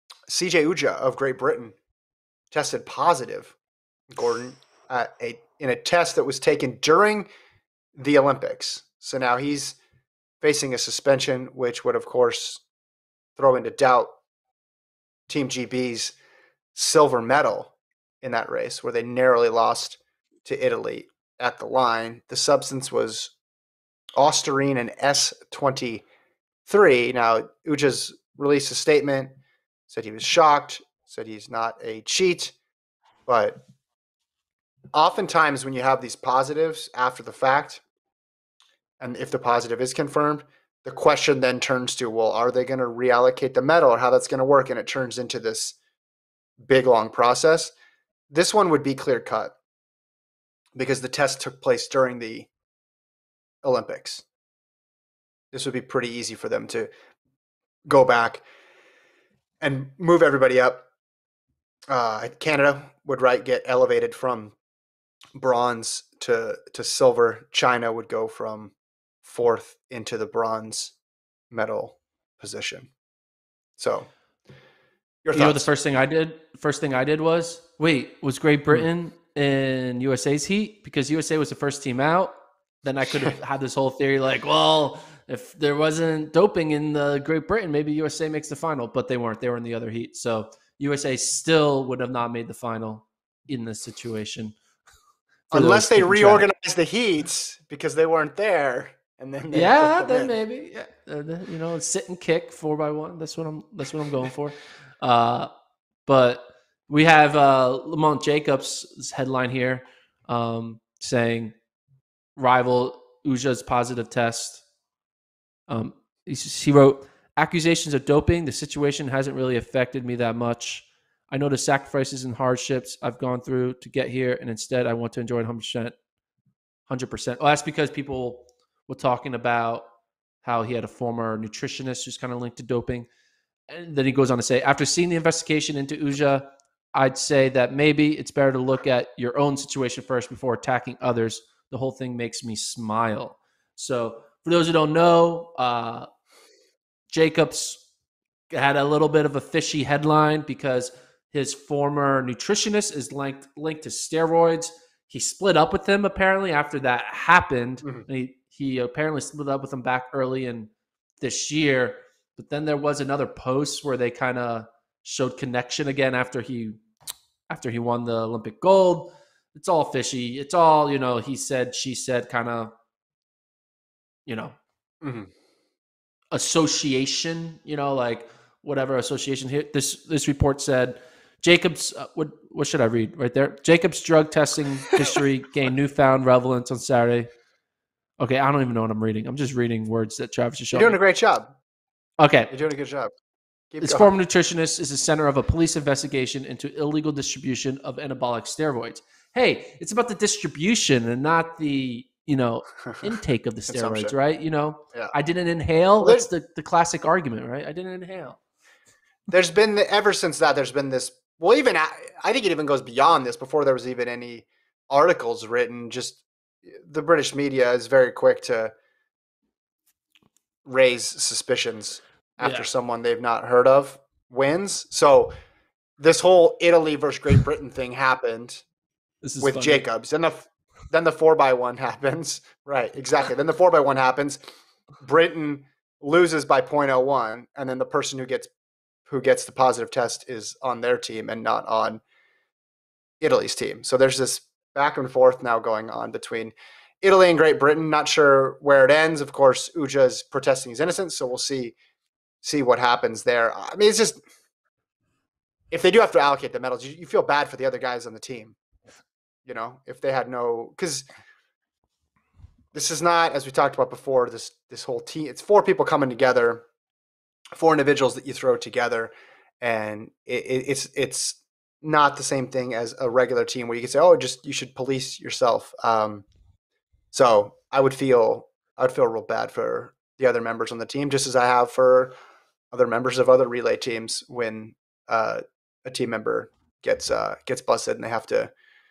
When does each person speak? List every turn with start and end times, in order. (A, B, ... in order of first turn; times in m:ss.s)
0:00.3-0:01.8 A
0:02.5-0:03.6 A
0:04.1-0:07.3 A
0:08.0-0:09.8 A
0:10.4-0:12.6 A
0:13.4-0:14.1 A
0:15.3-0:16.2 A
0:16.8-0:23.3 A
0:24.2-0:26.0 A
0:26.7-0:29.3 A
0:29.9-0:32.5 A
0:33.3-0:33.6 A
0:34.9-0:37.8 A
0:39.0-0:45.8 A
0:46.6-0:47.7 A
0:48.3-0:49.6 A
0:50.8-0:52.5 A
0:53.6-0:54.2 A
0:55.5-0:56.9 A
0:57.9-0:58.4 A
0:59.6-1:00.8 A
1:01.9-1:04.6 A
1:05.4-1:11.0 A
1:11.5-1:12.9 A
1:13.8-1:14.1 A
1:15.2-1:15.7 A
1:15.3-1:34.6 B
1:35.5-1:36.4 B
1:35.5-1:40.4 A
1:39.5-1:45.5 B
1:46.1-1:51.6 B
1:52.4-1:54.6 B
1:55.7-2:06.0 B
2:06.9-2:09.9 B
2:10.4-2:13.1 B
2:13.7-2:26.1 B
2:27.1-2:27.8 B
2:28.5-2:46.8 B
2:47.5-2:52.7 B
2:54.3-2:54.6 B
2:55.0-2:55.3 A
2:56.3-3:07.3 B
3:08.2-3:11.0 B
3:10.7-3:11.6 A
3:12.2-3:12.5 B
3:12.5-3:13.1 A
3:13.7-3:14.1 A
3:13.8-3:28.4 B
3:23.7-3:24.2 A
3:26.0-3:26.3 A
3:29.3-3:38.7 A
3:40.7-3:45.3 A
3:42.4-3:42.7 B
3:46.0-3:48.6 A
3:49.2-3:49.8 B
3:49.4-3:54.4 A
3:55.0-3:58.5 A
3:59.1-4:02.0 A
4:03.2-4:11.8 A
4:12.4-4:14.2 A
4:15.7-4:18.6 A
4:19.5-4:21.1 A
4:22.7-4:26.6 A
4:27.6-4:36.3 A
4:37.1-4:42.2 A
4:42.7-4:48.5 A